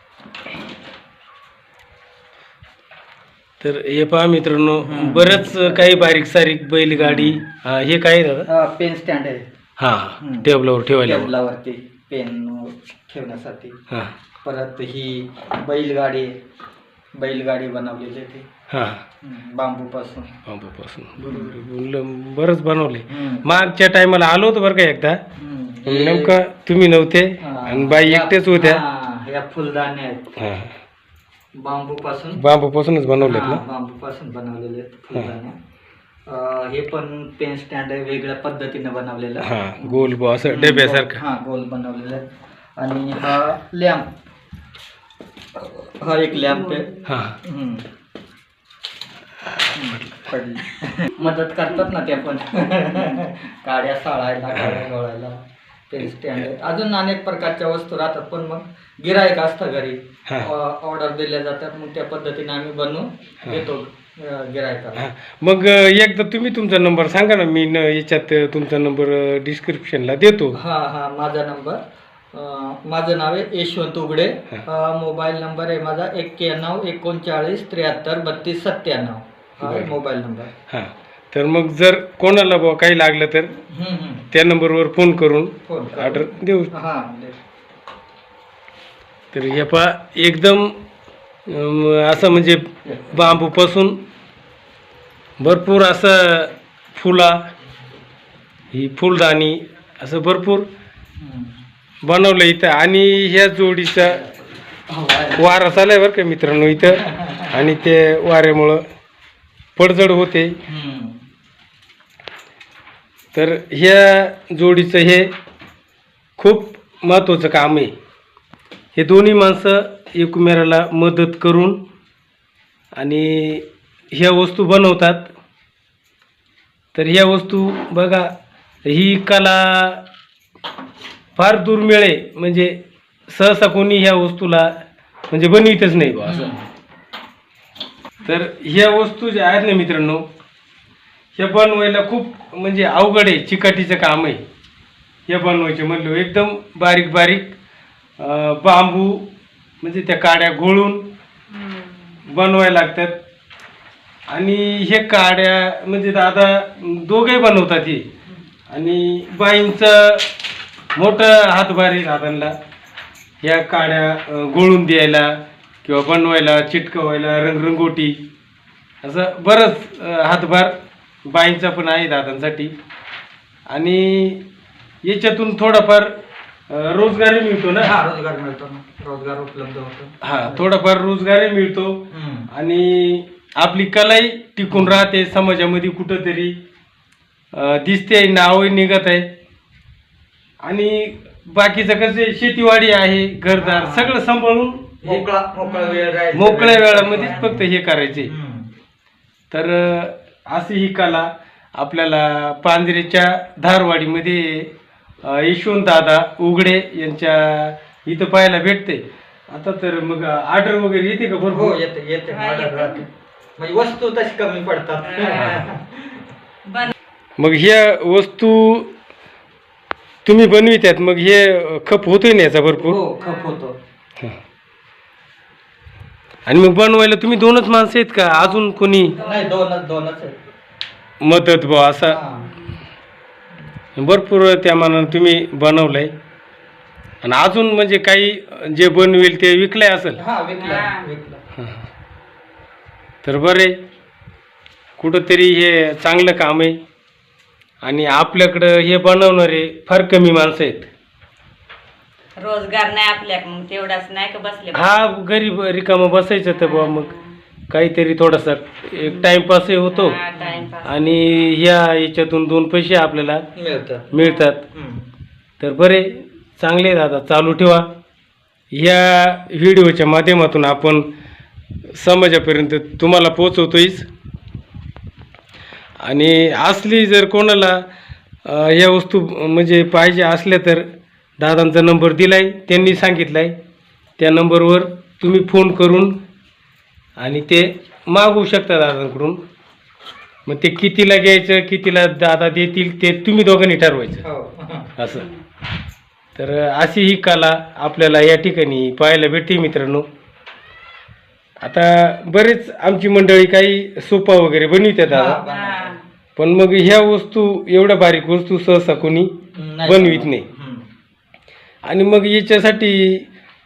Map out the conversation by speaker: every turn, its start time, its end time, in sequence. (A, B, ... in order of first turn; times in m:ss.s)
0:03.6-0:08.5 A
0:04.8-0:06.2 B
0:06.9-0:07.4 B
0:08.5-0:09.5 B
0:09.8-0:11.3 A
0:10.2-0:13.8 B
0:14.4-0:16.3 B
0:17.2-0:18.5 B
0:18.7-0:19.0 A
0:19.2-0:20.4 B
0:20.5-0:25.2 A
0:21.2-0:21.6 B
0:23.1-0:23.6 B
0:25.4-0:26.4 B
0:25.9-0:28.8 A
0:27.4-0:30.3 B
0:30.4-0:30.7 A
0:31.6-0:32.4 B
0:32.4-0:33.6 A
0:33.2-0:35.6 B
0:36.3-0:44.1 B
0:39.4-0:41.2 A
0:45.6-0:47.9 B
0:47.0-0:47.4 A
0:49.5-0:50.2 A
0:49.7-1:05.0 B
0:54.5-0:54.8 A
1:05.0-1:10.6 A
1:10.6-1:11.8 B
1:12.3-1:20.5 B
1:19.6-1:19.9 A
1:20.7-1:23.5 A
1:23.7-1:24.3 B
1:24.3-1:26.7 A
1:25.7-1:27.4 B
1:29.3-1:30.7 A
1:31.5-1:34.0 A
1:32.8-1:33.4 B
1:35.4-1:37.4 A
1:38.7-1:40.7 A
1:41.2-1:41.6 B
1:42.0-1:44.2 A
1:44.0-1:45.8 B
1:45.4-1:48.8 A
1:46.9-1:47.5 B
1:49.8-1:50.6 A
1:50.7-1:51.2 B
1:53.3-1:55.3 A
1:56.4-1:57.9 A
1:59.0-2:01.8 A
2:03.0-2:05.3 A
2:06.9-2:08.3 A
2:08.8-2:10.0 A
2:11.4-2:12.8 A
2:13.3-2:14.7 A
2:15.3-2:16.5 A
2:16.2-2:16.6 B
2:18.2-2:20.2 A
2:21.4-2:24.4 A
2:25.3-2:27.6 A
2:28.2-2:29.3 A
2:29.8-2:31.1 A
2:31.5-2:32.2 C
2:32.3-2:33.2 A
2:34.3-2:38.0 A
2:38.7-2:40.3 A
2:41.0-2:42.5 A
2:43.4-2:48.2 A
2:49.0-2:50.8 A
2:51.3-2:52.7 A
2:53.7-2:54.4 A
2:55.0-2:56.1 A
2:56.7-2:58.0 A
2:57.8-3:00.6 B
3:00.2-3:06.6 A
3:02.1-3:02.5 B
3:07.5-3:09.3 A
3:10.6-3:15.2 A
3:13.6-3:14.2 B
3:15.0-3:17.6 B
3:15.6-3:16.1 C
3:16.3-3:18.3 A
3:17.0-3:17.5 C
3:18.2-3:18.7 B
3:19.5-3:24.7 A
3:25.2-3:31.8 A
3:31.5-3:36.2 B
3:32.3-3:33.0 C
3:35.0-3:35.7 C
3:35.3-3:35.7 A
3:36.7-3:36.9 C
3:37.4-3:38.9 A
3:40.2-3:43.0 A
3:42.8-3:43.8 B
3:43.2-3:43.6 C
3:46.5-3:49.2 A
3:49.1-3:49.6 C
3:49.2-3:50.4 B
3:51.2-3:52.2 A
3:52.0-3:52.6 B
3:54.0-3:56.1 A
3:57.2-4:00.2 A
4:00.2-4:01.4 B
4:00.6-4:01.1 C
4:01.6-4:01.8 A
4:03.2-4:03.8 A
4:05.0-4:06.8 A
4:07.8-4:10.9 A
4:12.4-4:15.0 C
4:14.7-4:17.1 A
4:16.6-4:17.2 C
4:17.7-4:20.2 A
4:19.0-4:19.3 C
4:19.9-4:21.2 C
4:20.4-4:20.7 B
4:20.8-4:23.4 A
4:23.6-4:24.1 B
4:24.1-4:24.6 A
4:24.2-4:24.5 C
4:24.7-4:25.1 B
4:25.6-4:27.9 A
4:28.7-4:31.1 A
4:31.9-4:34.1 A
4:36.0-4:37.8 A
4:38.4-4:40.9 A
4:41.4-4:43.5 A
4:44.2-4:46.2 A
4:47.2-4:49.4 A
4:50.5-4:54.2 A
4:54.2-4:54.9 B
4:55.0-4:55.3 A
4:55.1-4:55.4 C
4:56.4-5:00.1 A
5:01.6-5:05.4 A
5:05.1-5:06.0 B
5:05.5-5:06.0 C
5:06.4-5:10.4 A
5:09.5-5:10.9 B
5:11.9-5:13.3 A